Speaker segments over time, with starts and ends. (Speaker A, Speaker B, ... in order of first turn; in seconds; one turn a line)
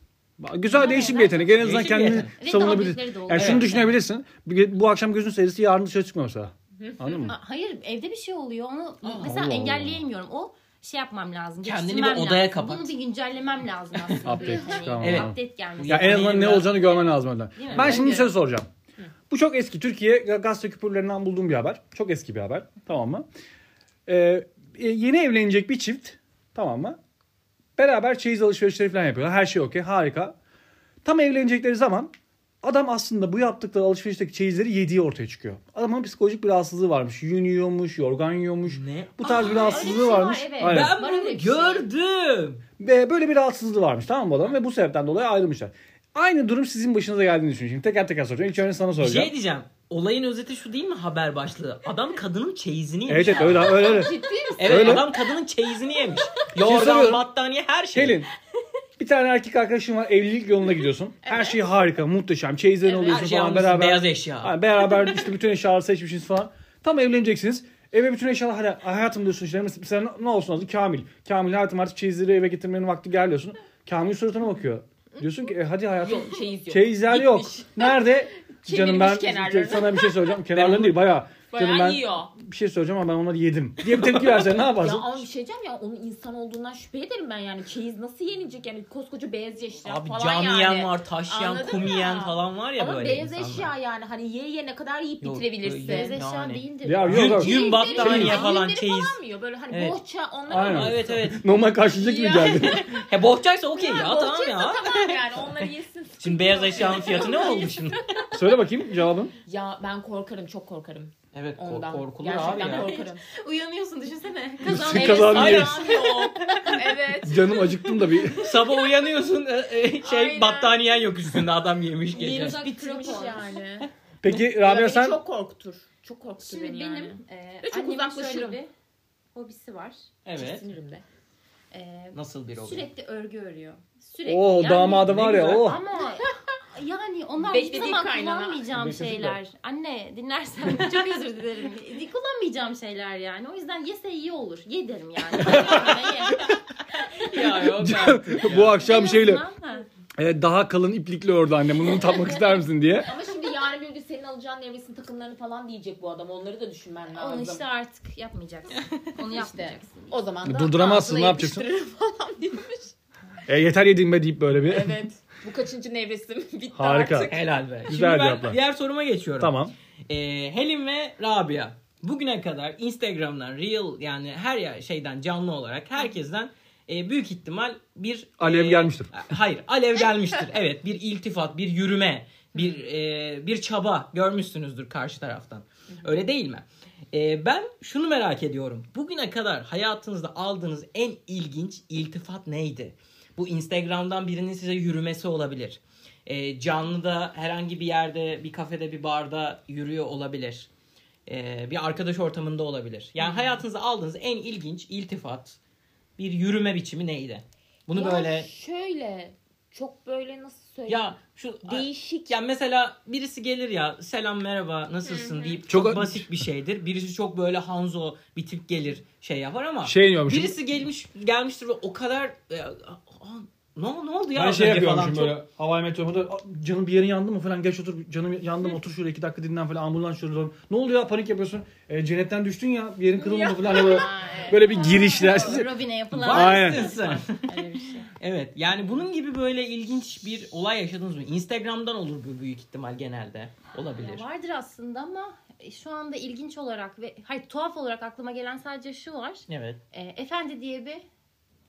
Speaker A: 0.4-7.3
Speaker B: 0.7-1.6
Speaker C: 1.6-2.3
Speaker B: 2.4-3.9
Speaker C: 3.3-3.7
Speaker D: 6.8-7.3
Speaker B: 7.3-16.8
Speaker C: 9.0-9.3
Speaker A: 9.2-10.0
Speaker C: 11.6-12.9
Speaker A: 14.2-18.7
Speaker D: 14.3-14.9
Speaker C: 15.0-17.1
Speaker B: 17.6-18.2
Speaker C: 17.7-18.3
Speaker A: 19.3-23.2
Speaker A: 24.1-27.0
Speaker A: 27.8-30.4
Speaker A: 31.0-40.9
Speaker C: 38.7-40.0
Speaker B: 39.2-41.9
Speaker C: 40.6-42.6
Speaker A: 42.8-49.3
Speaker C: 49.0-54.0
Speaker A: 53.1-55.1
Speaker D: 53.3-55.1
Speaker C: 54.6-58.2
Speaker A: 56.6-57.2
Speaker A: 57.9-58.3
Speaker A: 59.0-85.2
Speaker D: 61.2-61.6
Speaker C: 62.9-64.6
Speaker D: 76.0-78.0
Speaker D: 78.6-82.3
Speaker D: 84.8-96.1
Speaker C: 89.8-93.7
Speaker C: 95.2-99.2
Speaker B: 95.8-98.5
Speaker A: 96.8-98.4
Speaker D: 97.3-101.3
Speaker C: 99.7-100.0
Speaker A: 100.5-102.9
Speaker C: 100.5-101.4
Speaker D: 101.8-103.1
Speaker C: 102.9-108.0
Speaker D: 103.8-107.7
Speaker B: 106.8-108.3
Speaker A: 108.3-109.3
Speaker D: 109.5-113.2
Speaker C: 111.3-112.9
Speaker B: 112.5-116.8
Speaker A: 114.6-115.8
Speaker D: 114.9-118.4
Speaker C: 115.3-116.8
Speaker A: 117.2-118.5
Speaker C: 118.3-122.6
Speaker D: 120.0-121.0
Speaker B: 122.1-123.5
Speaker D: 122.3-128.6
Speaker A: 124.2-125.2
Speaker B: 126.4-128.7
Speaker B: 129.3-130.0
Speaker C: 130.2-130.6
Speaker D: 130.3-131.0
Speaker B: 131.7-146.5
Speaker C: 132.1-132.9
Speaker A: 134.3-135.8
Speaker C: 135.0-135.8
Speaker D: 137.5-138.7
Speaker A: 138.7-139.4
Speaker A: 145.5-145.9
Speaker D: 145.5-146.4
Speaker C: 147.2-148.8
Speaker A: 147.7-149.4
Speaker B: 148.6-149.9
Speaker A: 150.2-153.1
Speaker D: 153.0-157.6
Speaker B: 157.1-160.2
Speaker D: 159.2-162.9
Speaker A: 160.4-161.7
Speaker A: 163.5-165.0
Speaker D: 164.6-167.5
Speaker A: 166.7-167.3
Speaker C: 167.3-169.5
Speaker A: 167.9-168.6
Speaker A: 169.4-169.7
Speaker C: 170.1-200.7
Speaker A: 178.4-179.1
Speaker C: 201.3-205.6
Speaker D: 203.2-203.6
Speaker C: 206.2-208.5
Speaker D: 207.9-212.3
Speaker C: 210.9-225.4
Speaker D: 215.0-215.6
Speaker A: 215.7-216.4
Speaker A: 219.8-220.6
Speaker A: 224.3-237.0
Speaker D: 233.3-235.4
Speaker B: 233.5-238.1
Speaker C: 236.1-237.5
Speaker D: 237.6-238.0
Speaker C: 238.2-244.2
Speaker B: 244.0-251.0
Speaker C: 249.5-249.8